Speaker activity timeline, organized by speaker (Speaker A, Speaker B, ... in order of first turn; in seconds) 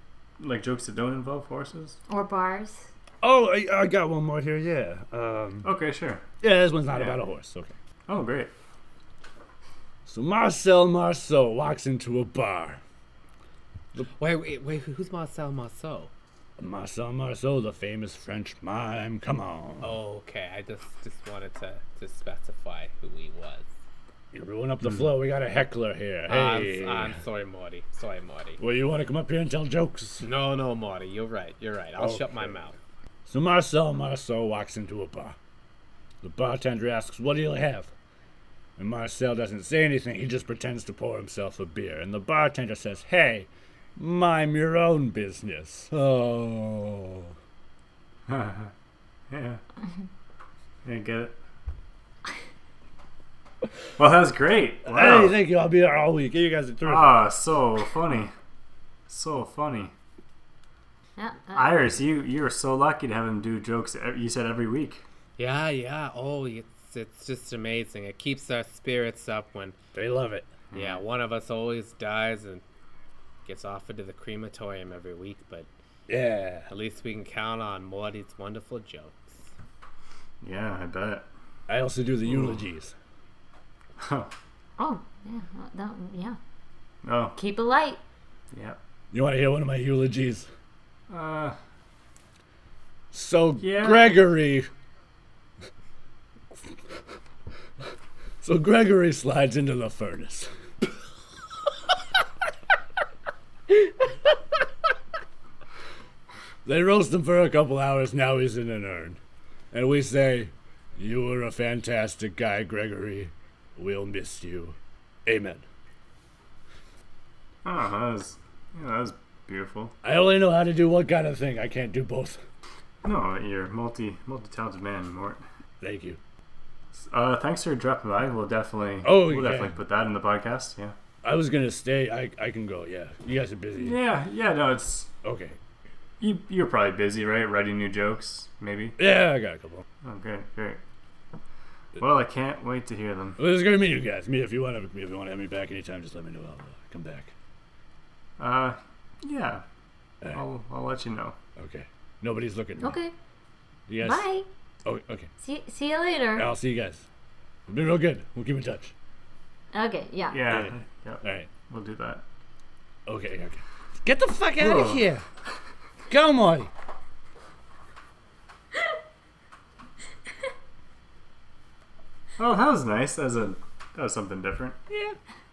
Speaker A: 0.4-2.0, 5.6-6.2, 6.9-7.2, 8.1-8.5, 48.3-48.7, 49.3-49.6, 50.8-51.4, 54.0-55.4, 56.8-58.3, 59.1-59.9, 61.5-65.0, 70.7-71.0, 80.4-81.3, 82.3-82.5, 84.0-84.3, 87.0-87.3, 88.5-88.8, 91.1-91.6, 93.6-94.2, 117.6-119.9, 123.0-125.4, 126.9-130.9, 133.8-135.1, 136.2-139.0, 140.0-140.8, 142.0-143.4, 148.4-149.6, 150.2-151.4, 160.3-162.2, 164.6-165.1, 172.4-174.8
Speaker B: 2.1-2.9, 61.2-61.9, 84.8-86.4, 87.3-88.0, 152.8-153.1, 154.0-154.5, 155.4-156.5, 159.7-160.4
Speaker C: 3.2-5.7, 6.4-7.7, 10.1-12.8, 16.6-20.0, 24.3-27.1, 28.6-30.2, 32.0-32.5, 33.2-35.4, 36.2-37.9, 38.8-47.3, 54.9-57.2, 69.9-70.7, 76.1-76.7, 81.7-82.9, 89.1-90.5, 93.1-94.7, 98.4-100.5, 106.6-109.2, 109.7-115.6, 120.0-122.4, 125.8-126.2, 129.0-129.7, 131.2-134.0, 135.2-135.6, 139.0-139.8, 143.4-147.3, 151.6-153.0, 153.9-154.2, 154.8-155.3, 156.3-157.0, 157.7-158.9, 160.5-161.5, 163.1-163.6
Speaker D: 14.0-16.1, 19.8-23.7, 26.3-28.6, 30.2-32.7, 65.4-69.8, 70.7-72.6, 73.4-75.7, 76.7-79.5
Speaker E: 164.0-165.2, 166.1-166.7, 174.9-175.2